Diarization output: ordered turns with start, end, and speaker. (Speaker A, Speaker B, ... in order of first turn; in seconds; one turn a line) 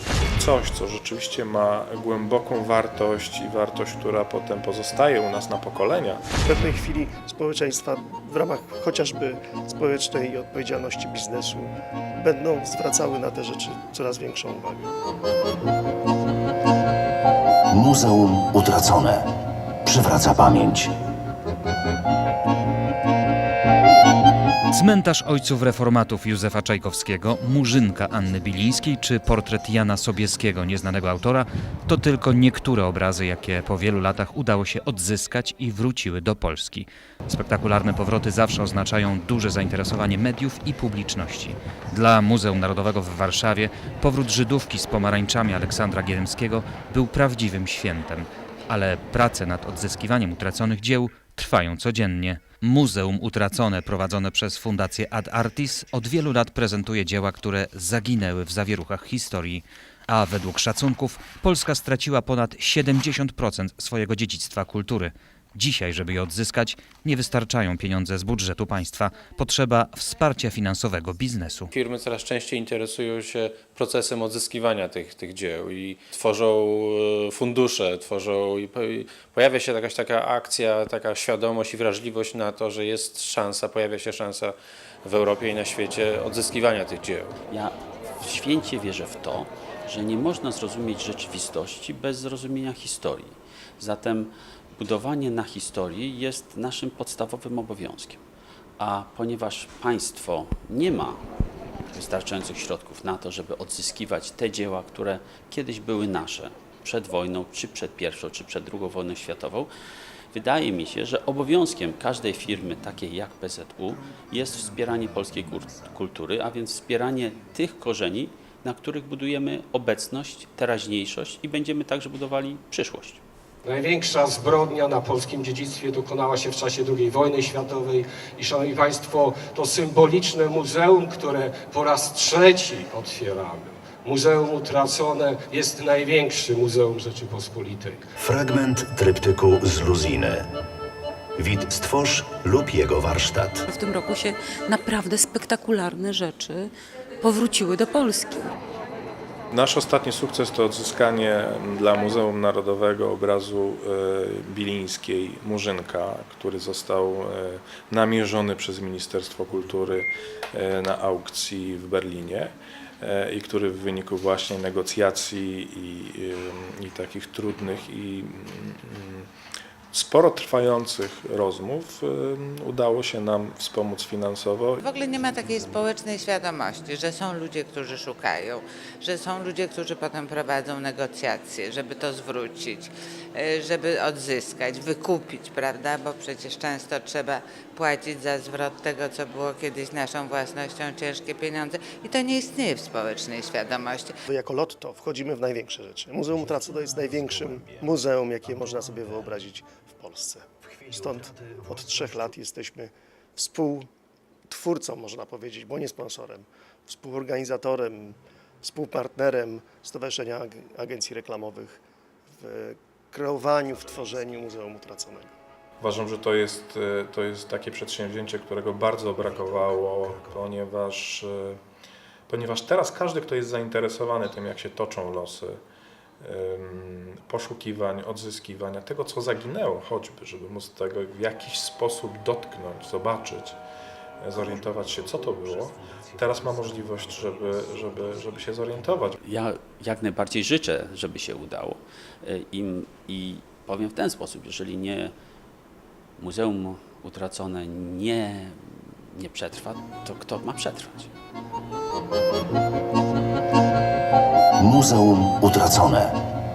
Speaker A: 0.3-6.2
Speaker B: 6.4-14.9
Speaker C: 17.7-19.3
Speaker C: 19.8-20.9
Speaker D: 24.7-71.7
Speaker E: 71.7-87.3
Speaker F: 87.5-98.2
Speaker F: 98.8-101.2
Speaker F: 101.9-109.7
Speaker F: 110.3-123.2
Speaker G: 123.6-138.0
Speaker C: 138.2-140.5
Speaker C: 141.4-143.6
Speaker H: 143.7-146.7
Speaker H: 147.2-148.5
Speaker A: 149.5-169.3
Speaker A: 169.9-174.8
Speaker I: 174.8-194.2
Speaker B: 194.3-203.9
Speaker C: 196.3-197.9
Speaker C: 198.7-199.3
Speaker C: 200.8-202.3
Speaker B: 204.5-211.8
Speaker B: 212.4-215.3
Speaker A: 215.8-221.6
Speaker C: 219.3-219.6
Speaker A: 222.3-225.6
Speaker A: 226.2-233.6
Speaker A: 234.2-239.2
Speaker F: 239.2-245.1
Speaker F: 246.2-251.1
Speaker C: 254.6-256.2